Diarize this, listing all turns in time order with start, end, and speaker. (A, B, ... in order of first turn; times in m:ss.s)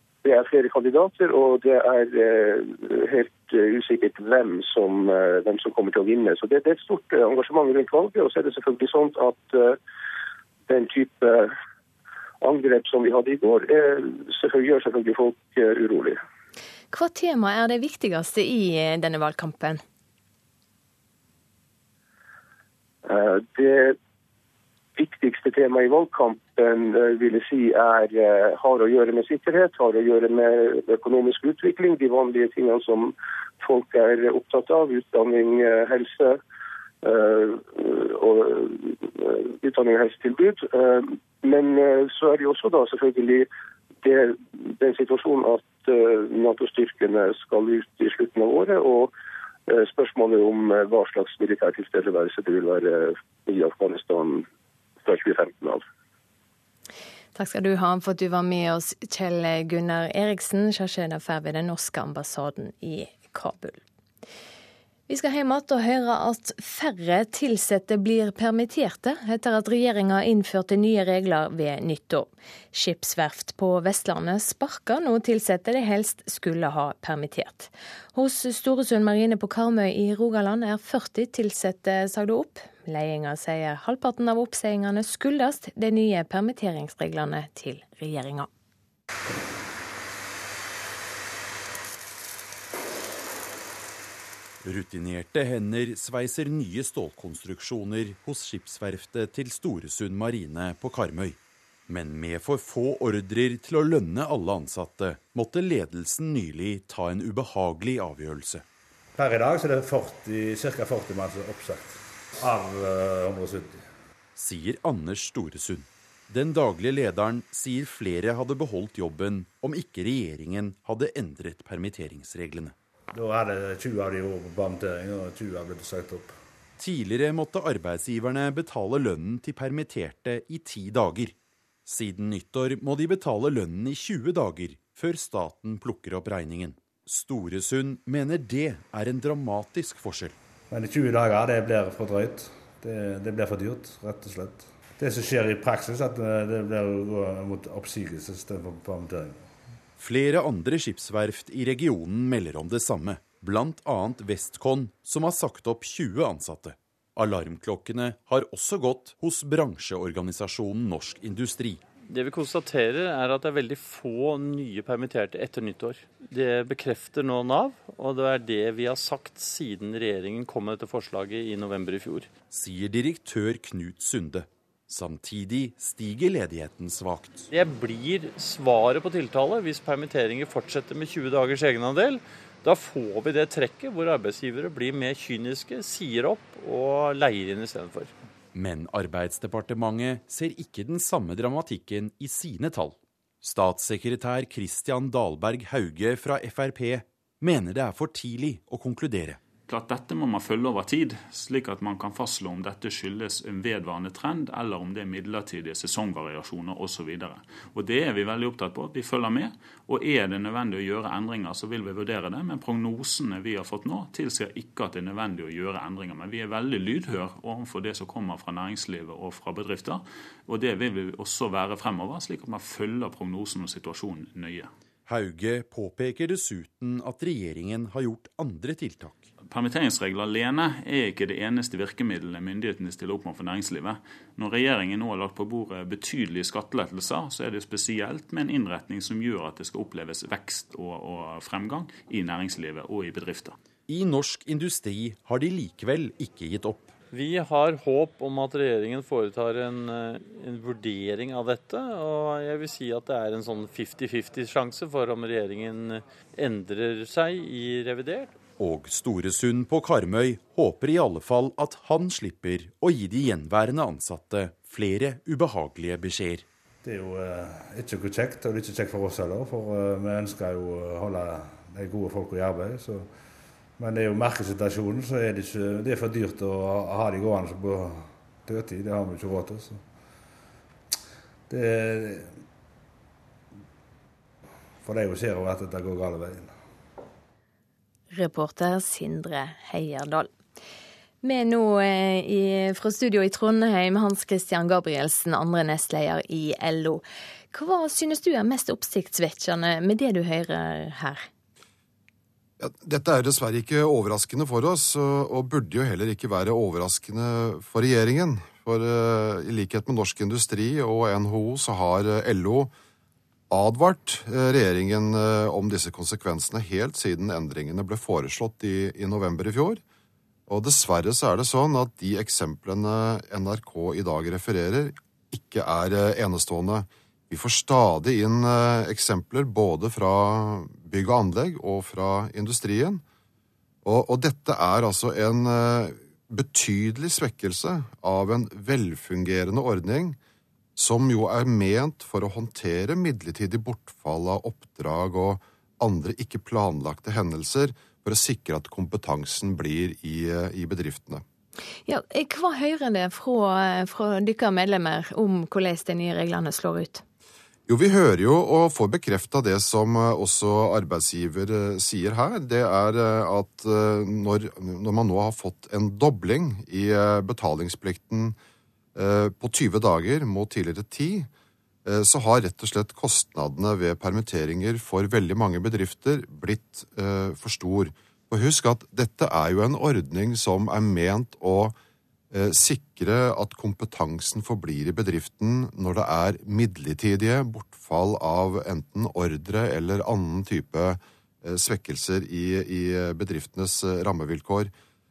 0:00.2-0:09.8 A
0:10.7-0:11.5 A
0:12.4-0:16.2 A
0:16.9-0:19.8 B
0:23.0-0:24.0 A
0:25.0-0:36.4 A
0:37.0-0:43.5 A
0:44.0-0:49.1 A
0:49.7-0:54.4 A
0:55.0-0:55.8 A
0:57.3-1:03.8 B
1:05.1-1:28.5 B
1:34.6-1:41.4 C
1:41.9-1:48.6 C
1:49.2-1:53.8 D
1:54.3-2:02.7 C
2:03.1-2:06.3 D
2:06.8-2:11.3 C
2:11.8-2:20.4 C
2:20.7-2:29.4 D
2:30.0-2:41.8 C
2:42.1-2:52.3 E
2:52.5-2:57.4 C
2:57.5-3:08.1 E
3:08.5-3:19.4 C
3:19.7-3:44.7 F
3:45.0-3:49.3 C
3:49.5-4:03.6 F
4:03.9-4:06.9 C
4:07.1-4:18.4 E
4:18.6-4:26.4 C
4:26.8-4:33.1 D
4:33.8-4:39.8 D
4:41.5-4:42.3 D
4:44.8-4:46.5 D
4:48.1-4:50.3 B
4:51.2-5:01.2 B
5:02.6-5:12.7 G
5:13.5-5:19.8 G
5:20.5-5:33.0 G
5:33.8-5:40.2 G
5:40.8-5:51.2 G
5:51.8-5:57.0 B
5:57.7-6:08.4 G
6:08.9-6:11.3 G
6:11.8-6:21.8 G
6:22.3-6:34.7 G